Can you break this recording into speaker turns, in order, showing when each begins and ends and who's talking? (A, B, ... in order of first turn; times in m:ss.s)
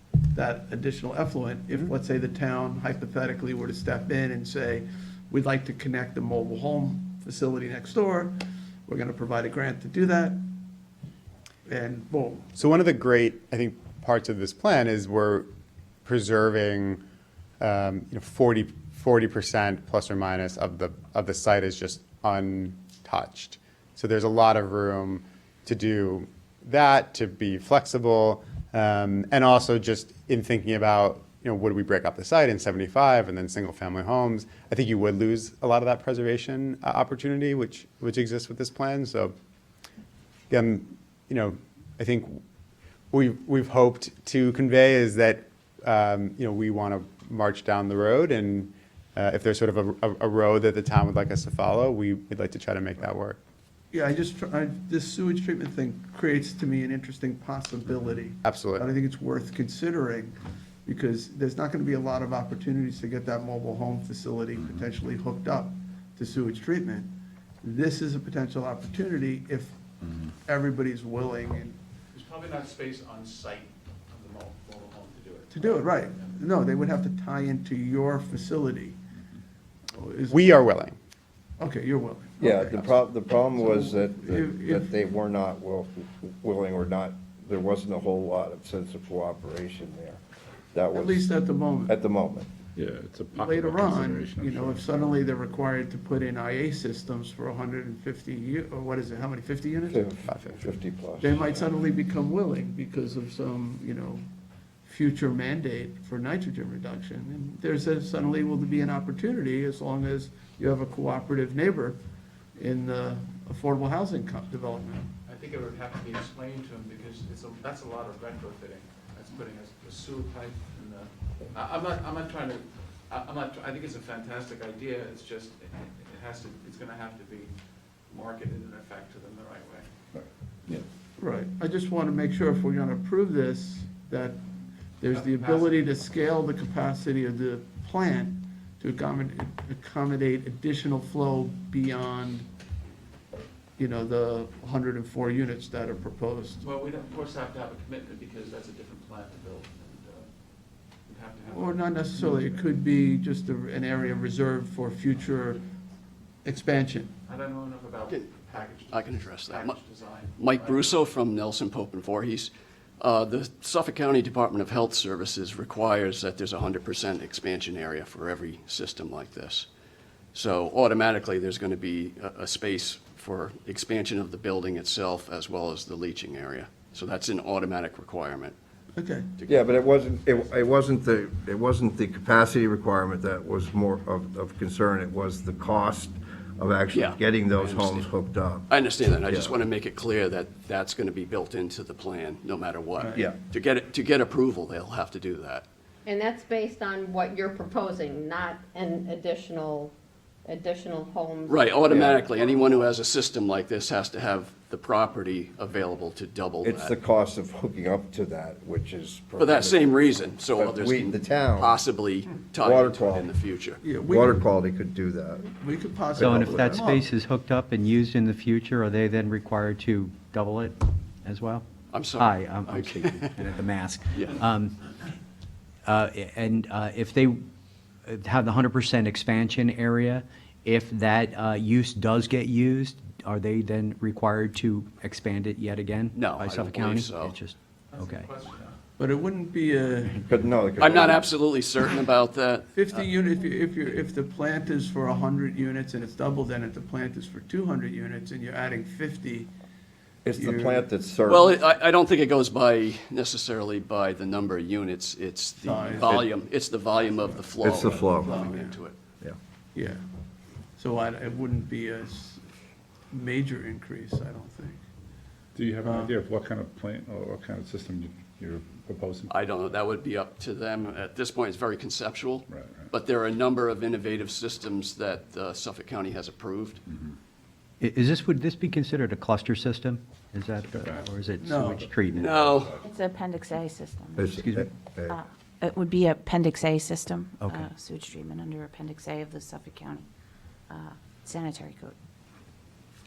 0:00.3-0:10.5 A
0:11.7-0:12.5 A
0:12.6-0:15.5 B
0:16.0-0:17.0 B
0:17.6-0:39.3 B
0:40.5-0:42.4 B
0:43.1-0:53.4 B
0:53.9-1:07.1 A
0:58.4-0:58.9 B
1:07.6-1:09.8 A
1:10.4-1:11.8 A
1:12.1-1:16.4 C
1:15.5-1:19.0 A
1:19.9-1:20.6 A
1:20.3-1:21.0 B
1:21.6-1:23.0 A
1:22.4-1:30.2 D
1:23.6-1:24.9 A
1:30.7-1:31.3 D
1:30.9-1:32.0 A
1:31.9-1:32.5 D
1:32.8-1:34.9 E
1:33.3-1:40.6 A
1:39.9-1:41.5 D
1:40.3-1:40.6 B
1:41.2-1:44.2 A
1:44.8-1:52.0 A
1:52.6-1:55.1 A
1:55.3-2:07.5 C
2:08.1-2:09.9 C
2:10.2-2:10.8 E
2:11.2-2:14.4 A
2:15.0-2:22.5 A
2:15.1-2:15.8 C
2:23.8-2:26.6 A
2:26.6-2:30.3 C
2:31.0-2:32.5 C
2:31.5-2:35.6 A
2:36.4-2:37.1 A
2:37.2-2:41.1 C
2:38.9-2:39.8 F
2:40.4-2:49.7 F
2:50.3-2:58.6 F
2:59.0-2:59.3 A
2:59.4-2:59.7 F
2:59.5-3:09.6 D
3:06.9-3:08.1 F
3:08.7-3:15.7 F
3:13.0-3:13.3 A
3:16.1-3:19.9 G
3:20.4-3:22.4 G
3:21.5-3:27.0 F
3:21.9-3:22.2 D
3:26.6-3:31.8 D
3:29.4-3:33.8 F
3:32.6-3:33.3 D
3:33.8-3:34.4 A
3:34.0-3:35.5 D
3:35.6-3:37.0 A
3:36.2-3:36.6 D
3:36.2-3:44.8 H
3:41.9-3:43.5 F
3:44.1-3:44.4 F
3:45.8-3:47.4 H
3:48.1-3:58.3 H
3:56.1-3:57.4 F
3:57.9-3:58.8 C
3:59.0-4:00.2 A
4:00.3-4:01.3 D
4:00.8-4:03.1 F
4:02.7-4:09.5 A
4:10.2-4:11.6 D
4:10.4-4:10.9 A
4:11.3-4:19.0 F
4:15.6-4:16.3 A
4:17.6-4:18.5 D
4:18.2-4:18.8 A
4:19.8-4:20.0 A
4:20.8-4:22.5 A
4:23.1-4:24.8 A
4:25.6-4:29.6 E
4:25.8-4:26.2 A
4:29.3-4:36.8 F
4:32.5-4:32.9 E
4:36.9-4:37.2 E
4:37.8-4:42.4 H
4:40.7-4:41.1 E
4:41.4-4:41.8 A
4:41.7-4:42.9 E
4:42.1-4:42.8 F
4:42.8-4:44.2 I
4:44.2-4:45.2 D
4:44.2-4:44.7 H
4:45.1-4:50.1 I
4:47.4-4:47.7 H
4:50.7-4:52.0 I